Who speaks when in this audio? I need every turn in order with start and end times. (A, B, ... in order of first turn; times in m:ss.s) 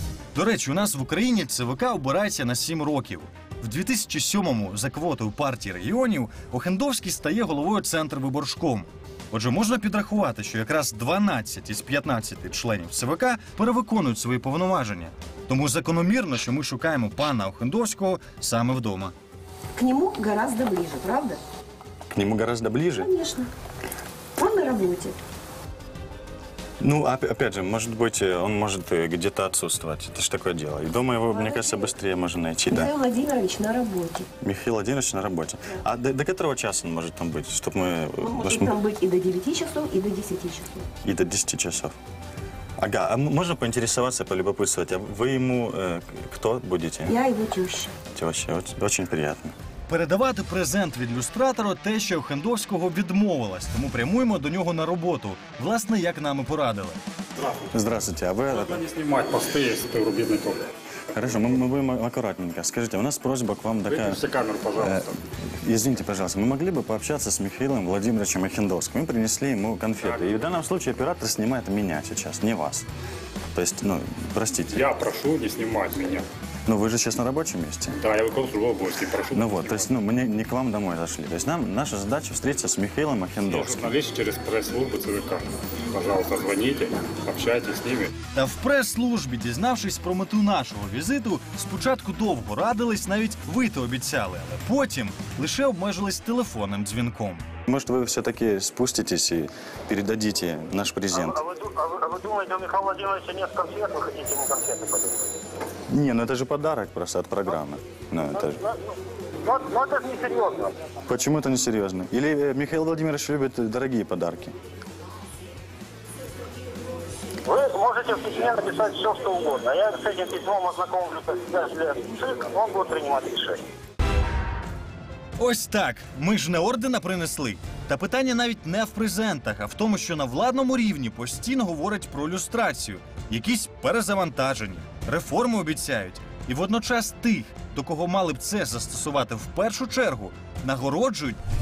0:00.3-0:19.1 A
0:19.7-0:21.4 B
0:22.1-0:23.1 C
0:22.9-0:23.5 B
0:24.4-0:25.2 B
0:26.8-0:32.9 C
0:31.3-0:31.9 B
0:32.7-0:34.3 B
0:34.4-0:38.8 C
0:38.2-0:40.9 B
0:41.0-0:41.9 C
0:42.8-0:47.2 C
0:47.0-0:47.9 B
0:48.1-0:49.5 C
0:49.9-0:57.0 A
0:57.7-0:58.8 C
0:58.5-1:00.6 D
1:01.1-1:04.2 C
1:03.8-1:05.1 D
1:04.8-1:05.1 C
1:05.6-1:12.8 C
1:10.0-1:10.6 D
1:13.5-1:14.9 C
1:14.7-1:16.2 D
1:16.6-1:18.0 C
1:18.0-1:19.9 D
1:19.3-1:23.9 C
1:23.4-1:28.1 D
1:28.3-1:37.4 A
1:37.7-1:41.5 C
1:41.6-1:45.1 E
1:45.9-1:48.6 C
1:49.4-1:50.7 E
1:51.1-1:54.5 C
1:57.5-2:03.6 E
2:05.4-2:21.4 A